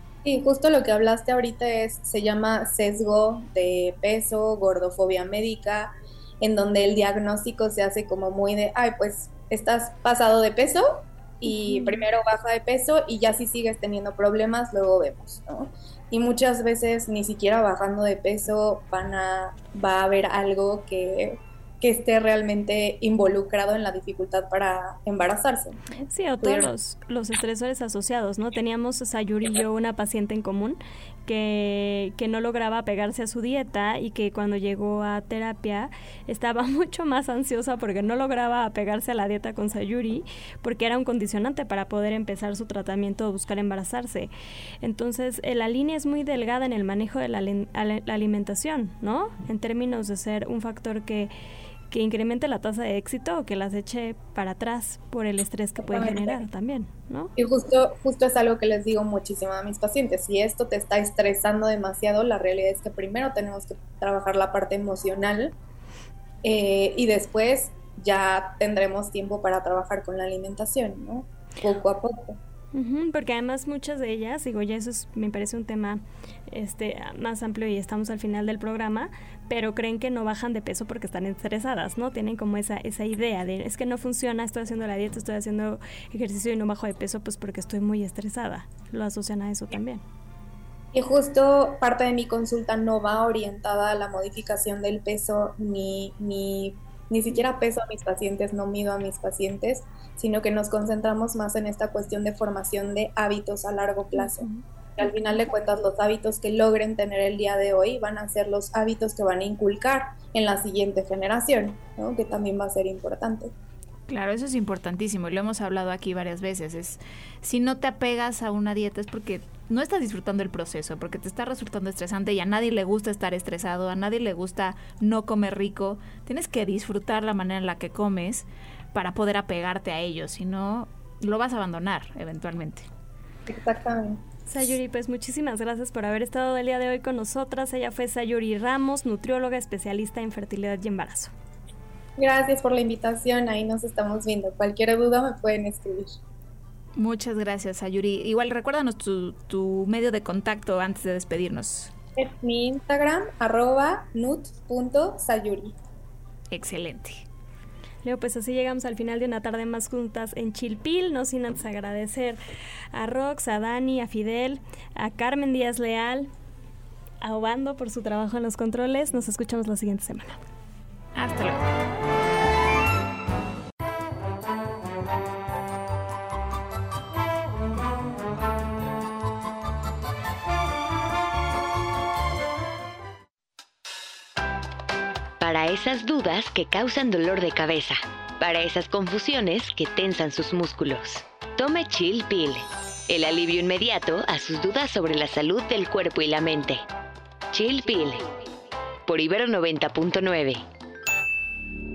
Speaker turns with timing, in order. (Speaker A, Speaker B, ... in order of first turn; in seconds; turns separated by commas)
Speaker A: 0.2-26.7, Speaker B: 11.5-12.0, Speaker B: 26.1-44.3, Speaker B: 44.8-51.3, Speaker B: 51.9-57.3, Speaker A: 55.9-56.4, Speaker A: 57.4-65.5, Speaker A: 66.4-72.4, Speaker B: 72.7-90.0, Speaker A: 90.9-113.5, Speaker B: 104.2-104.6, Speaker C: 114.1-132.9, Speaker A: 133.5-134.2, Speaker B: 134.5-141.3, Speaker A: 142.2-146.1, Speaker C: 147.0-151.9, Speaker A: 152.2-155.8, Speaker C: 156.5-157.2, Speaker B: 158.0-162.4, Speaker B: 162.9-166.3, Speaker B: 167.2-170.4, Speaker C: 171.2-171.7, Speaker D: 185.4-196.8, Speaker D: 197.5-198.3, Speaker D: 199.1-200.7